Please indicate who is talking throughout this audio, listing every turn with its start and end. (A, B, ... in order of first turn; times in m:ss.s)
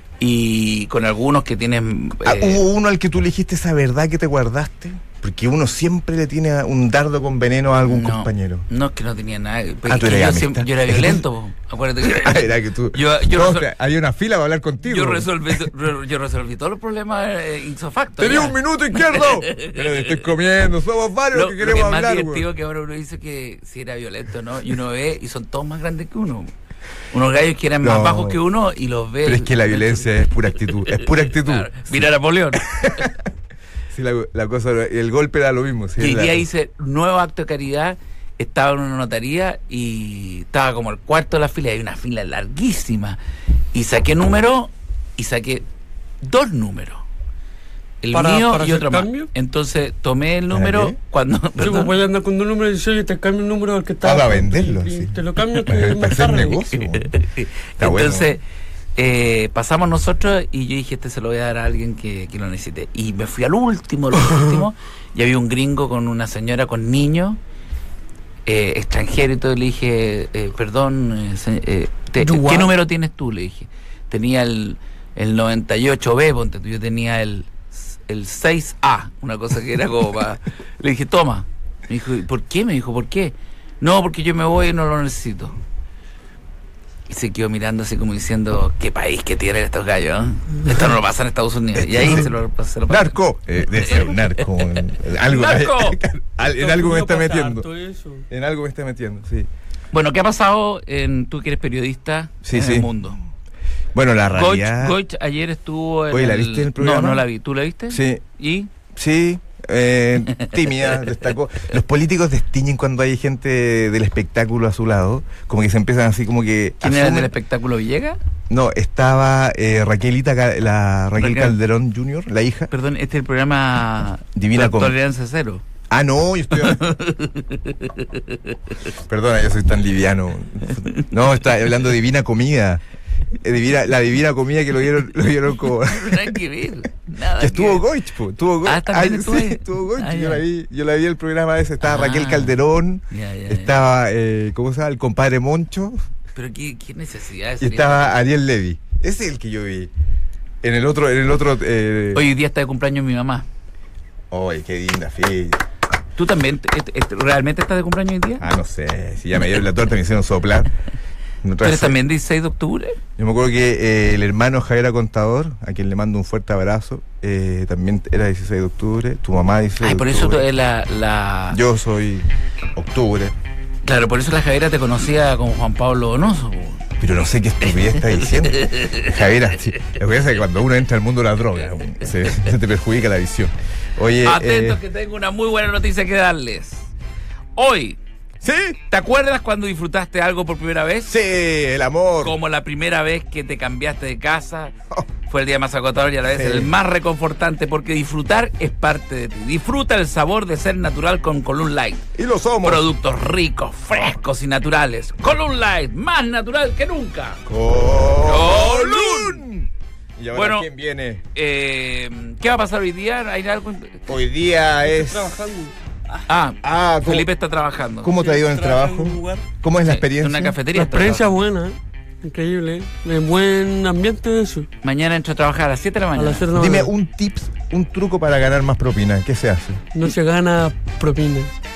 0:00.2-0:02.6 A
0:02.2-0:08.6 B
0:07.8-0:13.7 A
0:09.9-0:11.2 B
0:12.0-0:15.7 B
0:14.8-0:20.2 A
0:18.2-0:22.5 B
0:21.3-0:26.5 A
0:27.1-0:33.1 A
0:27.8-0:28.4 B
0:29.2-0:33.2 B
0:33.9-0:36.4 B
0:36.0-0:43.2 A
0:43.7-0:45.6 A
0:46.2-0:47.0 A
0:48.0-0:51.9 A
0:48.1-0:49.3 C
0:50.5-0:51.0 B
0:51.6-0:56.7 C
0:54.0-0:57.1 B
0:56.7-0:58.4 A
0:57.8-0:58.3 B
0:59.0-1:07.4 A
1:08.4-1:25.6 A
1:12.2-1:12.7 C
1:27.1-1:33.1 A
1:31.8-1:32.3 B
1:32.9-1:37.6 B
1:33.7-1:36.0 A
1:36.4-1:38.2 C
1:38.3-1:39.5 B
1:39.9-1:43.2 A
1:42.4-1:42.9 B
1:43.9-1:45.0 B
1:44.3-1:48.7 A
1:46.1-1:47.2 B
1:47.9-1:48.2 B
1:48.9-1:57.3 B
1:50.4-1:51.1 A
1:56.8-1:58.2 A
1:58.5-2:02.7 B
2:01.2-2:01.6 A
2:02.7-2:05.6 A
2:04.3-2:05.0 B
2:05.9-2:06.8 B
2:06.5-2:08.6 A
2:09.1-2:12.8 B
2:13.4-2:16.4 B
2:15.7-2:17.8 A
2:17.4-2:26.0 B
2:18.6-2:20.4 A
2:21.8-2:22.6 A
2:23.1-2:23.7 A
2:26.3-2:28.2 A
2:27.6-2:29.9 B
2:30.6-2:32.3 B
2:32.1-2:33.4 A
2:34.3-2:35.6 B
2:36.2-2:38.4 A
2:38.4-2:40.7 B
2:41.4-2:42.0 B
2:41.6-2:43.0 A
2:43.2-2:50.4 B
2:49.8-2:51.6 A
2:51.5-2:53.3 B
2:53.8-2:56.8 A
2:57.0-3:04.8 B
2:58.3-2:59.2 A
3:04.2-3:06.9 A
3:07.6-3:08.0 A
3:08.4-3:08.8 B
3:08.9-3:11.1 A
3:11.1-3:12.4 B
3:12.2-3:14.7 A
3:15.3-3:22.0 A
3:16.3-3:16.7 B
3:22.1-3:22.9 B
3:22.6-3:27.4 A
3:27.4-3:31.2 B
3:28.2-3:29.4 A
3:30.3-3:30.7 A
3:31.3-3:34.1 A
3:34.1-3:35.4 B
3:34.8-3:35.7 C
3:36.3-3:38.1 A
3:36.6-3:37.3 B
3:38.0-3:40.6 B
3:38.1-3:39.4 C
3:39.8-3:41.4 A
3:40.7-3:44.7 C
3:44.8-3:46.5 A
3:46.2-3:46.9 C
3:46.5-3:49.8 B
3:49.9-3:51.5 C